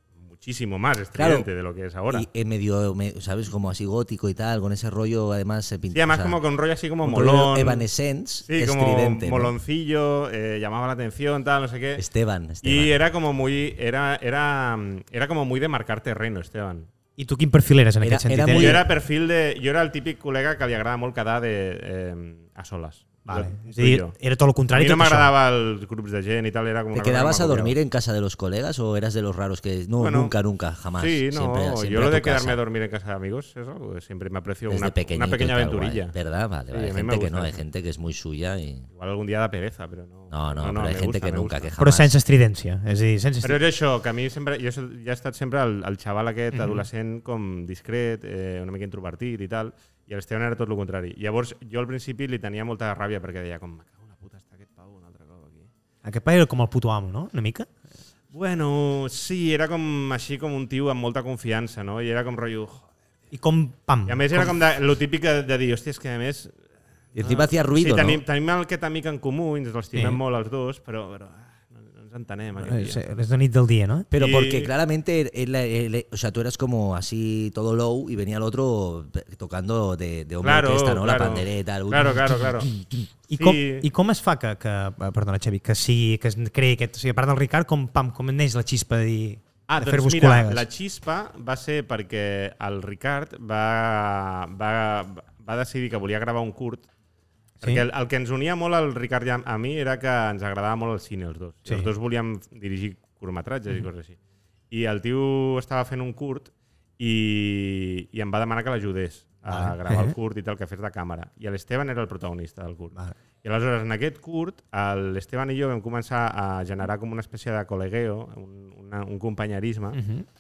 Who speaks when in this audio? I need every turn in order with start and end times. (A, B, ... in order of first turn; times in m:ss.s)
0:00.2-0:02.3 A
0:01.2-0:01.5 B
0:02.1-0:06.4 B
0:05.9-0:07.9 A
0:07.0-0:09.5 B
0:08.5-0:12.0 A
0:12.0-0:12.9 B
0:12.6-0:16.9 A
0:17.2-0:18.8 C
0:18.0-0:18.9 B
0:18.5-0:24.2 A
0:23.3-0:25.3 C
0:24.7-0:27.8 A
0:26.9-0:32.6 B
0:30.0-0:30.3 A
0:31.0-0:36.1 A
0:34.7-0:38.9 B
0:36.7-0:37.6 A
0:38.9-0:41.7 A
0:40.3-0:42.2 B
0:41.8-0:43.6 C
0:43.4-0:55.7 A
0:46.5-0:46.8 C
0:56.0-0:57.7 C
0:58.3-1:02.9 A
1:03.3-1:04.5 C
1:04.1-1:06.6 A
1:07.2-1:08.2 B
1:07.2-1:13.0 A
1:09.9-1:10.2 C
1:12.6-1:14.1 C
1:14.1-1:23.0 B
1:14.2-1:14.7 A
1:20.4-1:22.7 A
1:23.3-1:30.6 C
1:23.3-1:23.9 A
1:29.7-1:36.9 A
1:37.6-1:44.2 A
1:44.7-2:00.0 A
1:49.5-1:50.2 C
1:59.9-2:00.3 C